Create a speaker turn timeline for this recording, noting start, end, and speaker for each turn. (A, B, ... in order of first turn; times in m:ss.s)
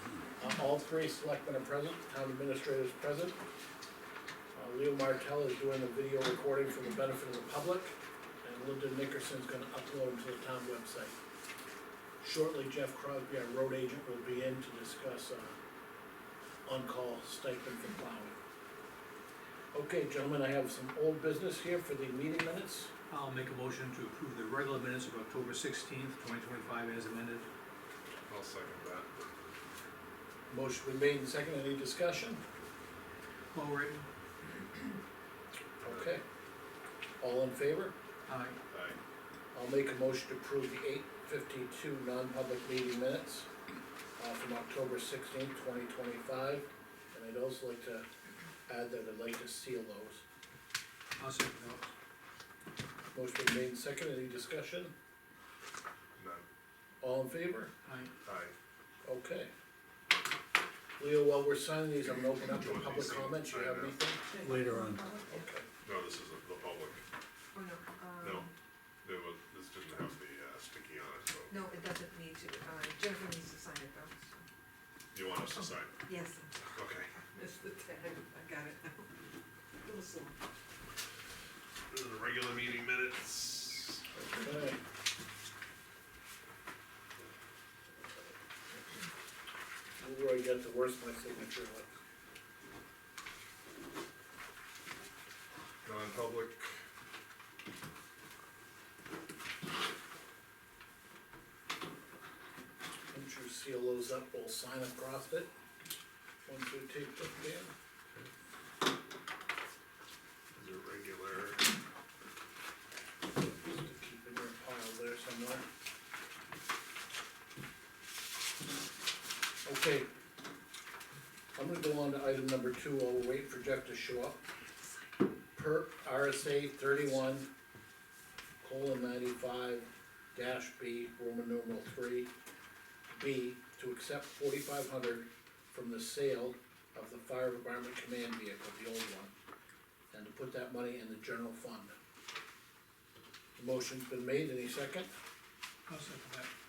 0:00.4-0:03.4 A
0:04.5-0:11.1 A
0:12.2-0:15.6 A
0:16.6-0:18.4 A
0:19.7-0:22.9 A
0:23.1-0:27.5 B
0:28.2-0:29.1 C
0:30.5-0:32.4 A
0:33.5-0:34.0 B
0:35.8-0:36.1 C
0:35.8-0:36.2 A
0:37.2-0:37.9 A
0:38.3-0:38.6 B
0:38.7-0:39.0 C
0:39.5-0:43.5 A
0:44.2-0:48.0 A
0:48.7-0:50.2 A
0:51.2-0:51.9 B
0:53.1-0:54.9 A
0:56.2-0:56.4 C
0:57.0-0:57.7 A
0:57.8-0:58.1 B
0:58.2-0:58.5 C
0:59.0-0:59.5 A
1:01.0-1:04.2 A
1:02.5-1:04.0 C
1:04.3-1:05.5 D
1:04.4-1:04.9 B
1:05.3-1:05.6 A
1:05.8-1:07.0 C
1:07.5-1:08.5 D
1:08.2-1:08.5 C
1:09.0-1:11.5 C
1:11.5-1:14.4 D
1:15.1-1:16.0 C
1:16.0-1:16.8 D
1:16.7-1:17.1 C
1:17.3-1:19.1 D
1:19.8-1:20.4 D
1:21.9-1:24.0 C
1:24.1-1:24.8 A
1:30.0-1:32.0 A
1:35.8-1:36.8 C
1:43.1-1:45.5 A
1:46.4-1:47.7 A
1:50.5-1:51.7 C
1:53.3-1:55.6 A
1:59.6-2:00.1 A
2:01.5-2:04.4 A
2:05.6-2:07.5 A
2:08.6-2:12.3 A
2:13.1-2:19.3 A
2:20.1-2:21.9 A
2:23.6-2:25.1 A
2:25.9-2:26.5 B